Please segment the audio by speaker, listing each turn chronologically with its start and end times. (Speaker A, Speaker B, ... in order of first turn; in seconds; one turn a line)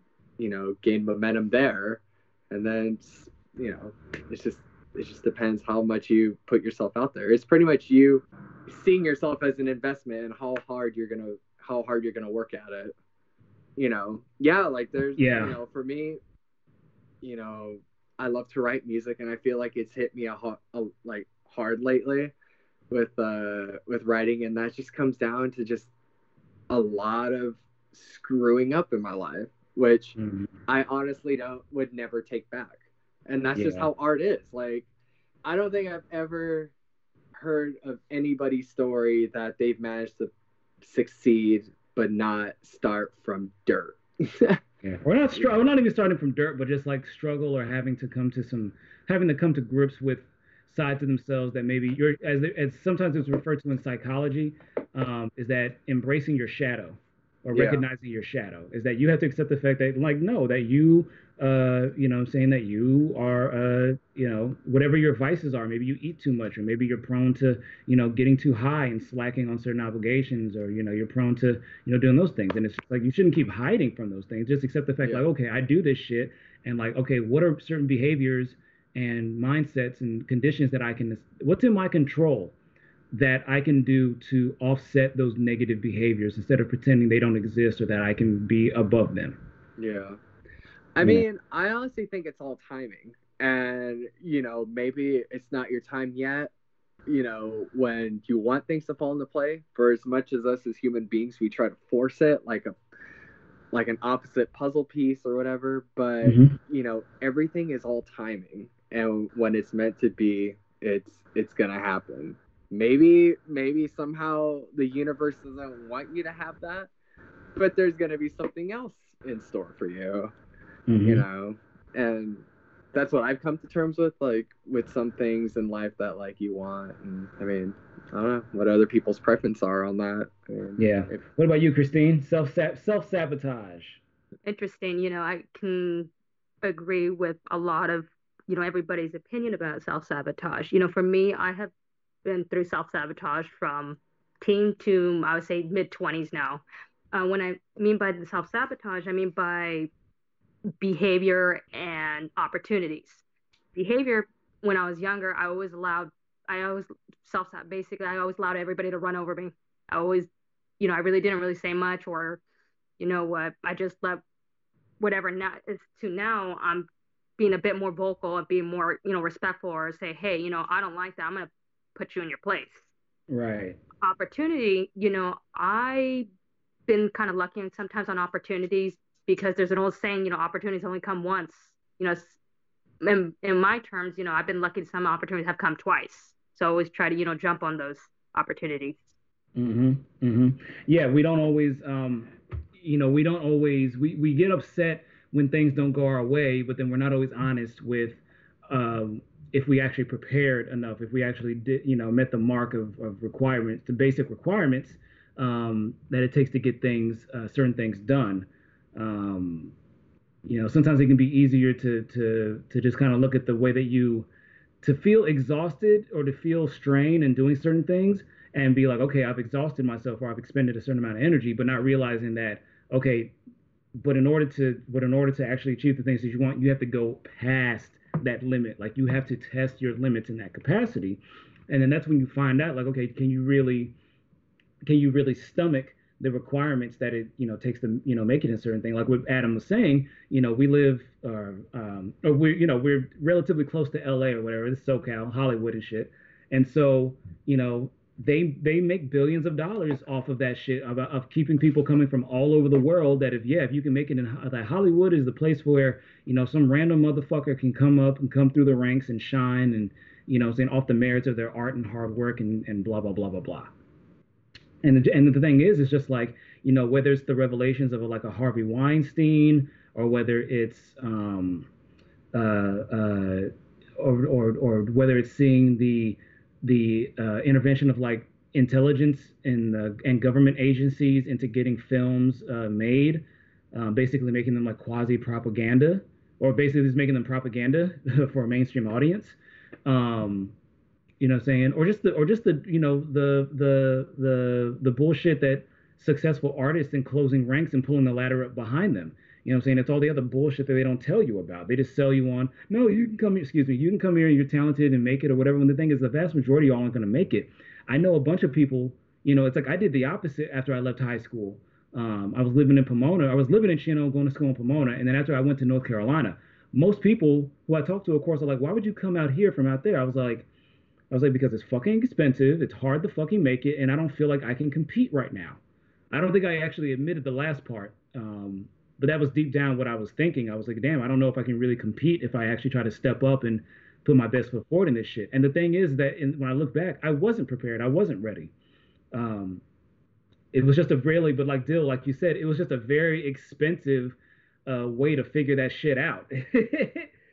Speaker A: 0.4-13.0
Speaker A: 13.8-16.2
Speaker B: 15.2-15.6
Speaker A: 17.2-22.3
Speaker A: 22.9-25.9
Speaker A: 26.7-34.9
Speaker B: 30.2-30.5
Speaker B: 33.5-33.9
Speaker A: 35.5-36.7
Speaker A: 37.3-44.6
Speaker B: 44.8-82.5
Speaker A: 57.5-57.8
Speaker B: 83.1-89.4
Speaker A: 89.8-90.2
Speaker A: 91.0-96.5
Speaker B: 91.0-91.3
Speaker A: 97.1-102.8
Speaker A: 103.7-116.9
Speaker B: 106.2-106.5
Speaker A: 117.6-120.3
Speaker B: 120.9-121.3
Speaker A: 121.0-131.2
Speaker B: 130.8-134.0
Speaker C: 134.4-136.1
Speaker C: 136.6-141.7
Speaker C: 142.2-146.6
Speaker C: 147.1-149.9
Speaker C: 150.8-153.2
Speaker C: 153.8-160.3
Speaker C: 160.8-162.4
Speaker C: 163.0-164.2
Speaker C: 165.0-172.9
Speaker B: 173.3-173.8
Speaker C: 174.0-176.3
Speaker C: 176.9-182.4
Speaker C: 183.0-189.1
Speaker B: 189.6-209.7
Speaker B: 210.4-214.3
Speaker B: 214.8-223.4
Speaker B: 224.0-233.9
Speaker B: 234.8-263.7
Speaker B: 264.8-271.7
Speaker B: 272.3-290.6
Speaker B: 291.2-320.5
Speaker B: 321.1-325.6
Speaker B: 326.1-338.5
Speaker B: 339.1-339.6
Speaker B: 340.5-347.1